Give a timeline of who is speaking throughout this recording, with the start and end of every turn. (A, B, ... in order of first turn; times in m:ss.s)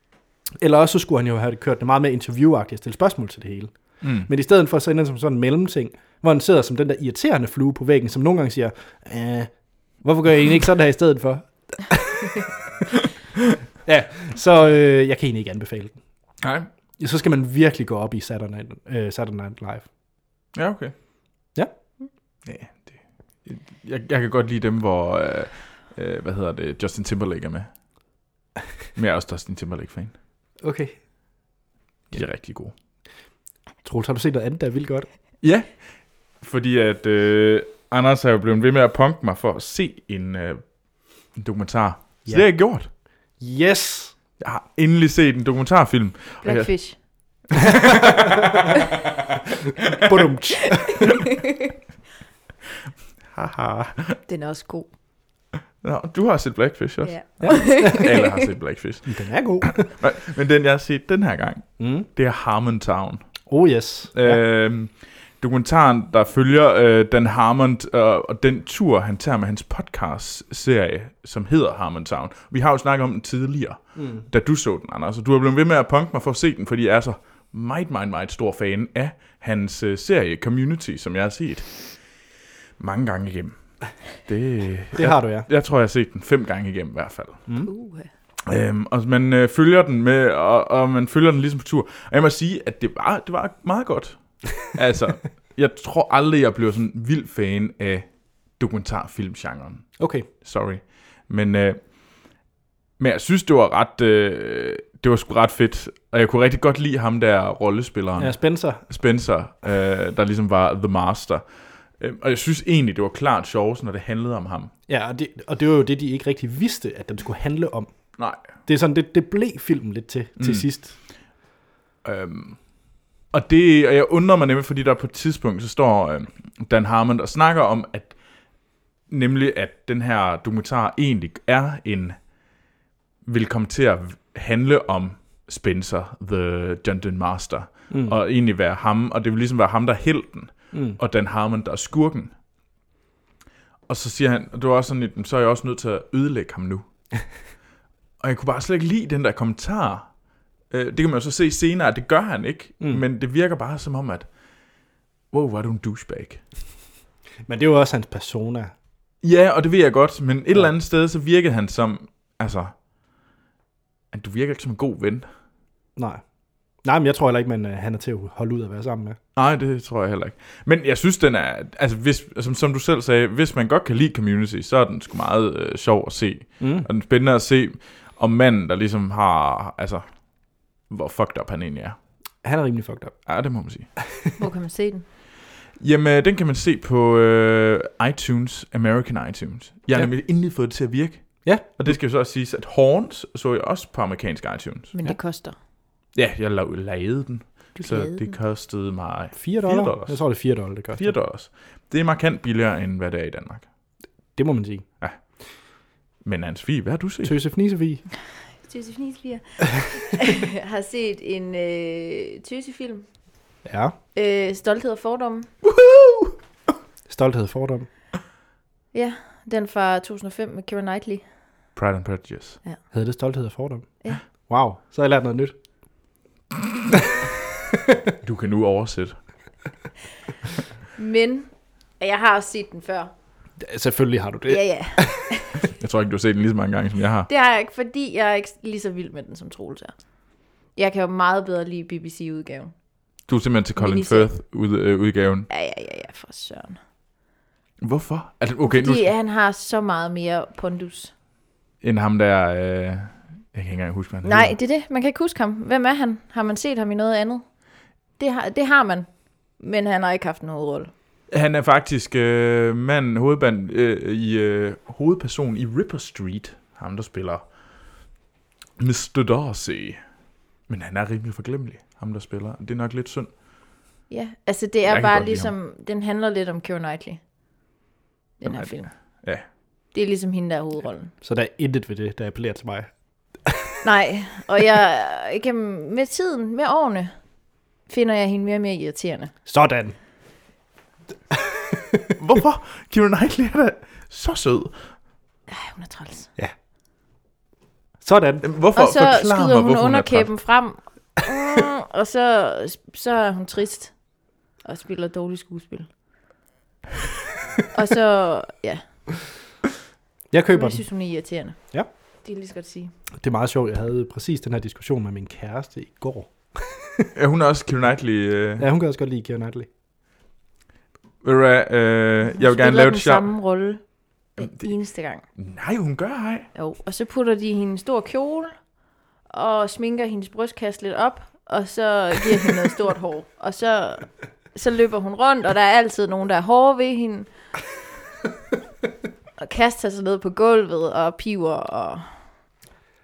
0:00.5-0:12.4 A
0:04.0-0:04.3 B
0:13.8-0:16.0 A
0:16.4-0:16.7 B
0:17.0-0:19.9 A
0:20.5-0:20.9 B
0:22.4-0:27.7 B
0:28.9-0:30.1 B
0:30.6-0:31.0 A
0:32.1-0:32.7 B
0:33.8-0:35.1 A
0:35.4-0:42.9 B
0:43.3-0:44.1 A
0:44.4-0:48.0 B
0:46.4-0:47.0 C
0:50.0-0:51.1 A
0:53.3-0:54.2 B
0:54.3-0:54.9 C
0:55.8-1:03.4 B
0:57.0-0:58.2 C
0:57.4-0:58.1 A
0:59.0-0:59.9 A
1:01.8-1:02.1 A
1:03.5-1:04.4 A
1:04.1-1:22.2 B
1:14.0-1:14.2 A
1:22.8-1:27.5 B
1:24.9-1:25.5 A
1:27.6-1:28.1 C
1:28.4-1:41.8 B
1:40.0-1:40.3 A
1:43.0-1:51.4 B
1:48.2-1:48.8 A
1:52.0-1:54.7 B
1:54.9-2:00.9 A
1:58.2-1:58.5 B
2:00.4-2:01.1 B
2:02.0-2:08.2 B
2:09.1-2:12.2 B
2:13.2-2:22.3 B
2:17.9-2:18.2 A
2:20.7-2:21.0 A
2:23.9-2:26.8 B
2:28.2-2:30.2 B
2:30.7-2:34.3 B
2:35.3-2:36.4 B
2:37.5-2:38.7 A
2:39.2-2:42.7 B
2:44.1-2:45.3 B
2:46.0-2:46.2 A
2:46.8-2:49.2 A
2:49.4-3:02.0 B
2:56.6-2:56.9 A
3:02.4-3:03.2 A
3:03.2-3:03.9 B
3:04.4-3:05.0 C
3:05.8-3:14.9 B
3:11.4-3:12.0 A
3:14.9-3:15.6 C
3:16.1-3:23.7 B
3:17.8-3:18.3 C
3:19.3-3:21.2 A
3:24.4-3:24.9 A
3:25.0-3:25.7 B
3:26.2-3:27.4 B
3:27.2-3:28.0 A
3:28.6-3:33.1 C
3:33.6-3:33.9 A
3:34.1-3:35.5 C
3:35.6-3:36.3 B
3:37.1-3:37.9 A
3:38.9-3:41.2 C
3:41.7-3:42.6 B
3:42.9-3:45.5 A
3:48.2-3:49.2 B
3:51.0-3:53.1 C
3:53.6-3:55.2 A
3:54.5-3:55.5 C
3:55.8-3:57.3 B
3:57.3-4:02.7 C
4:03.3-4:05.5 B
4:03.8-4:04.3 C
4:05.5-4:06.8 C
4:07.8-4:09.1 B
4:08.6-4:11.1 C
4:11.8-4:14.5 B
4:14.2-4:17.5 C
4:18.2-4:20.9 C
4:21.3-4:28.0 B
4:28.8-4:30.0 B
4:30.7-4:33.3 B
4:34.1-4:37.2 C
4:34.9-4:35.5 B
4:38.4-4:39.2 C
4:38.4-4:39.4 B
4:39.9-4:41.1 C
4:41.2-4:42.9 A
4:43.4-4:43.7 A
4:43.8-4:47.1 C
4:47.8-4:49.3 C
4:49.4-4:49.9 A
4:51.3-4:52.0 A
4:52.2-4:54.9 B
4:55.5-4:56.3 C
4:58.0-4:58.4 A
4:58.4-5:00.3 B
4:58.8-5:04.0 C
5:04.6-5:05.9 C
5:07.7-5:08.8 C
5:10.3-5:10.8 A
5:10.5-5:12.9 C
5:13.2-5:17.1 A
5:17.1-5:18.7 B
5:18.6-5:19.7 A
5:21.2-5:23.3 B
5:22.3-5:25.2 C
5:24.4-5:24.7 B
5:25.3-5:26.5 B
5:26.5-5:28.7 C
5:29.2-5:37.3 C
5:39.4-5:42.1 C